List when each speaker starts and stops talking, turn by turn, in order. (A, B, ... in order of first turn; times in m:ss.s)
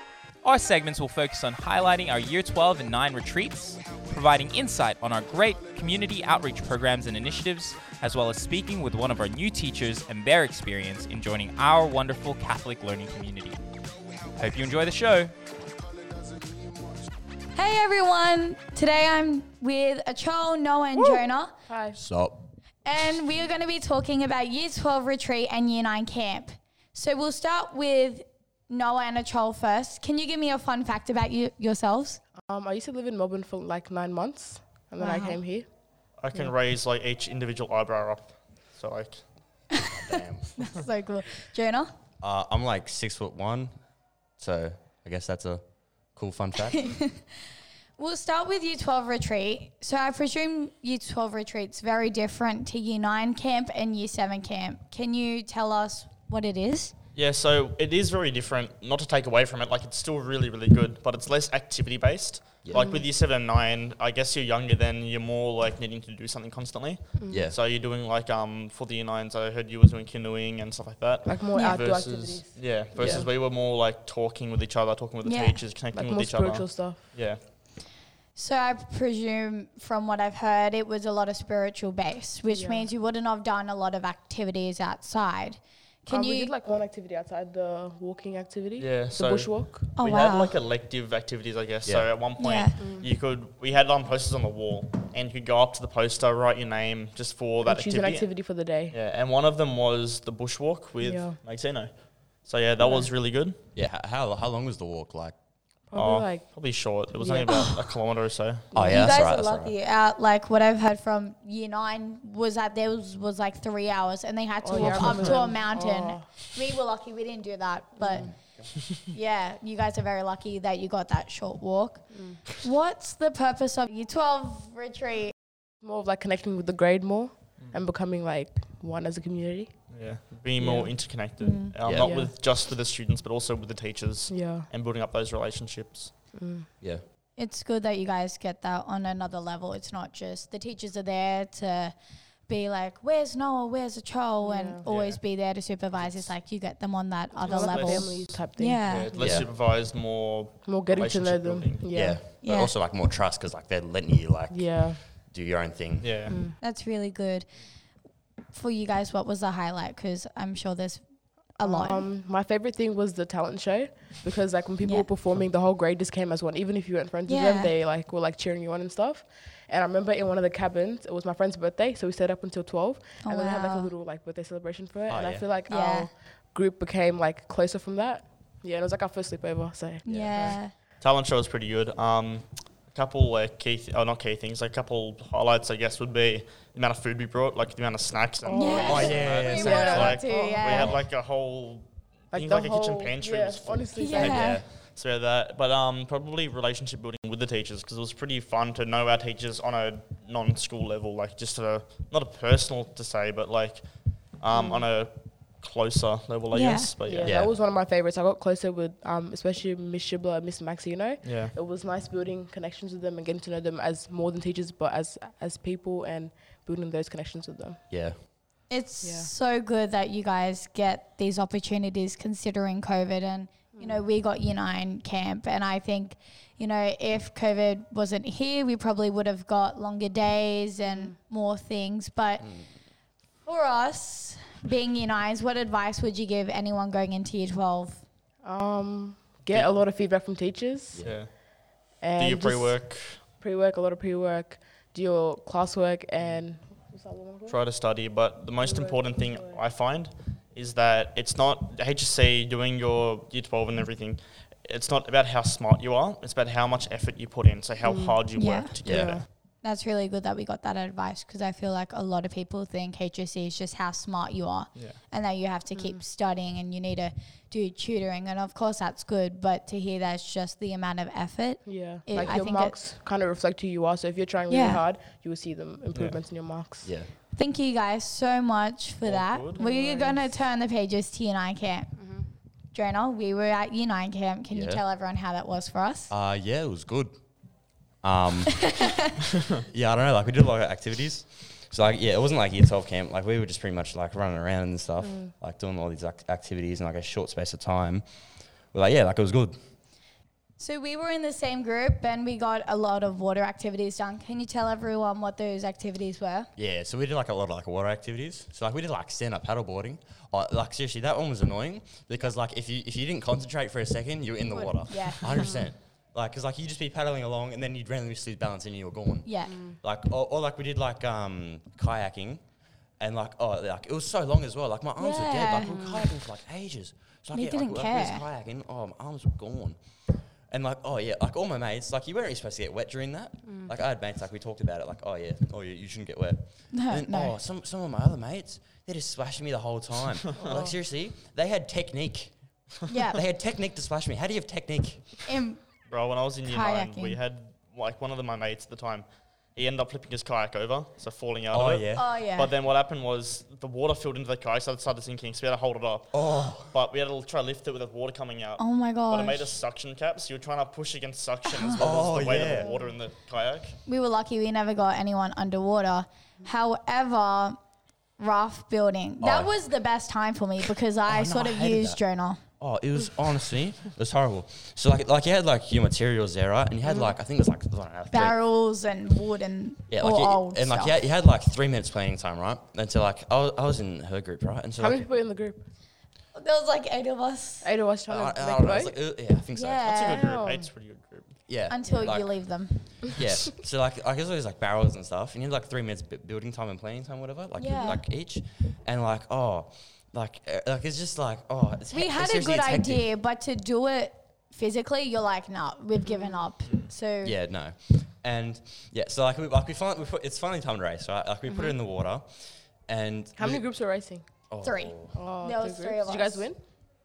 0:00.4-0:13.6 A
0:14.3-0:15.3 A
0:17.5-0:21.6 B
0:21.0-0:22.0 C
0:22.0-0:22.5 D
0:22.8-0:32.2 B
0:32.3-0:35.7 C
0:35.0-0:35.5 B
0:36.1-0:39.6 E
0:39.7-0:40.0 B
0:39.9-0:40.7 D
0:40.6-0:41.9 B
0:42.2-0:46.9 D
0:46.7-0:47.4 B
0:48.0-0:56.9 B
0:57.1-1:17.4 E
1:02.6-1:02.9 D
1:02.7-1:03.0 C
1:07.2-1:07.5 C
1:07.3-1:07.6 D
1:11.2-1:13.3 C
1:11.5-1:11.9 B
1:13.0-1:13.2 D
1:15.2-1:15.8 B
1:15.9-1:17.3 C
1:18.3-1:26.6 B
1:22.5-1:22.9 C
1:26.1-1:29.9 C
1:28.8-1:43.6 E
1:29.9-1:30.6 B
1:31.8-1:32.1 D
1:32.3-1:32.9 B
1:32.8-1:33.1 C
1:37.6-1:39.0 C
1:41.0-1:41.4 C
1:42.8-1:43.1 C
1:43.7-1:45.8 D
1:45.9-1:47.5 C
1:45.9-1:48.7 E
1:48.7-1:49.0 C
1:48.7-1:49.8 D
1:48.7-2:05.3 B
1:54.6-1:56.6 C
1:54.8-1:55.3 D
1:58.0-1:58.3 C
1:58.2-1:58.6 D
1:58.8-1:59.0 E
2:02.1-2:02.4 C
2:05.8-2:11.3 C
2:07.6-2:07.8 E
2:09.9-2:16.3 E
2:11.4-2:11.8 B
2:11.8-2:12.1 D
2:11.9-2:12.3 C
2:14.3-2:14.7 C
2:16.3-2:16.7 C
2:16.8-2:17.0 D
2:17.3-2:29.1 B
2:24.4-2:24.9 C
2:24.8-2:25.4 E
2:25.9-2:26.3 E
2:27.3-2:29.5 C
2:27.4-2:32.2 E
2:29.2-2:29.5 D
2:30.6-2:32.3 C
2:31.9-2:36.4 D
2:32.2-2:32.7 B
2:34.5-2:35.0 C
2:36.0-2:36.4 E
2:36.3-2:36.6 C
2:36.6-2:42.1 B
2:41.6-3:00.6 C
2:44.8-2:45.1 B
2:47.2-2:47.7 B
2:53.2-2:54.0 B
2:55.1-2:55.6 D
2:55.6-2:56.2 B
3:00.0-3:00.8 B
3:00.1-3:00.4 D
3:01.0-3:27.4 E
3:08.4-3:10.9 C
3:08.5-3:11.0 B
3:08.8-3:10.2 D
3:12.3-3:14.5 C
3:13.9-3:14.6 B
3:14.2-3:14.7 D
3:24.5-3:24.9 C
3:26.5-3:27.0 B
3:27.0-3:38.3 C
3:27.2-3:27.5 D
3:31.2-3:31.5 E
3:37.9-3:38.2 D
3:38.7-3:52.7 B
3:39.0-3:39.3 C
3:43.7-3:44.1 C
3:50.8-3:51.2 C
3:52.4-3:52.8 D
3:53.4-3:58.1 B
3:58.4-4:01.5 C
4:00.9-4:01.2 D
4:01.0-4:03.3 E
4:02.0-4:07.6 C
4:06.2-4:06.4 E
4:07.5-4:19.2 E
4:08.6-4:09.6 C
4:17.8-4:18.2 C
4:18.3-4:32.8 B
4:18.8-4:19.2 C
4:18.8-4:19.2 D
4:24.7-4:25.0 E
4:25.7-4:26.0 C
4:31.6-4:37.1 C
4:34.5-4:34.9 B
4:36.8-4:37.1 D
4:37.3-4:46.1 B
4:39.0-4:39.6 E
4:39.5-4:40.4 C
4:41.9-4:42.3 C
4:44.5-4:44.8 D
4:46.1-4:48.7 D
4:48.6-4:48.9 B
4:49.7-5:00.0 D
4:55.0-4:55.3 C
5:00.6-5:06.5 B
5:06.5-5:45.2 D
5:14.5-5:15.6 B
5:15.3-5:15.7 C
5:19.2-5:19.7 B
5:19.5-5:19.8 C
5:25.0-5:25.9 B
5:25.6-5:26.1 C
5:27.3-5:28.2 B
5:33.4-5:33.7 C
5:36.7-5:37.4 B
5:40.4-5:40.8 C
5:42.9-5:43.2 B
5:45.2-5:47.2 B
5:45.8-6:03.8 E
5:51.5-5:52.3 D
5:51.9-5:52.6 B
5:56.1-5:56.8 D
5:58.6-5:59.6 B
6:01.4-6:02.8 B
6:01.8-6:02.7 D
6:03.8-6:07.6 B
6:08.2-6:12.4 B
6:09.2-6:09.6 D
6:10.6-6:18.6 D
6:16.8-6:17.1 C
6:18.1-6:21.0 B
6:19.9-6:25.2 D
6:24.8-6:25.6 C
6:26.3-6:27.8 B
6:27.6-6:29.2 C
6:28.0-6:30.3 D
6:29.5-6:30.3 B
6:29.8-6:31.5 E
6:30.1-6:30.7 C
6:31.4-6:43.1 D
6:31.6-6:33.0 B
6:37.6-6:38.1 B
6:41.9-6:47.4 B
6:46.0-6:46.5 C
6:46.6-6:46.9 E
6:47.2-6:55.3 D
6:51.4-6:51.8 C
6:53.4-6:54.4 C
6:54.6-6:56.6 B
6:55.0-6:56.8 C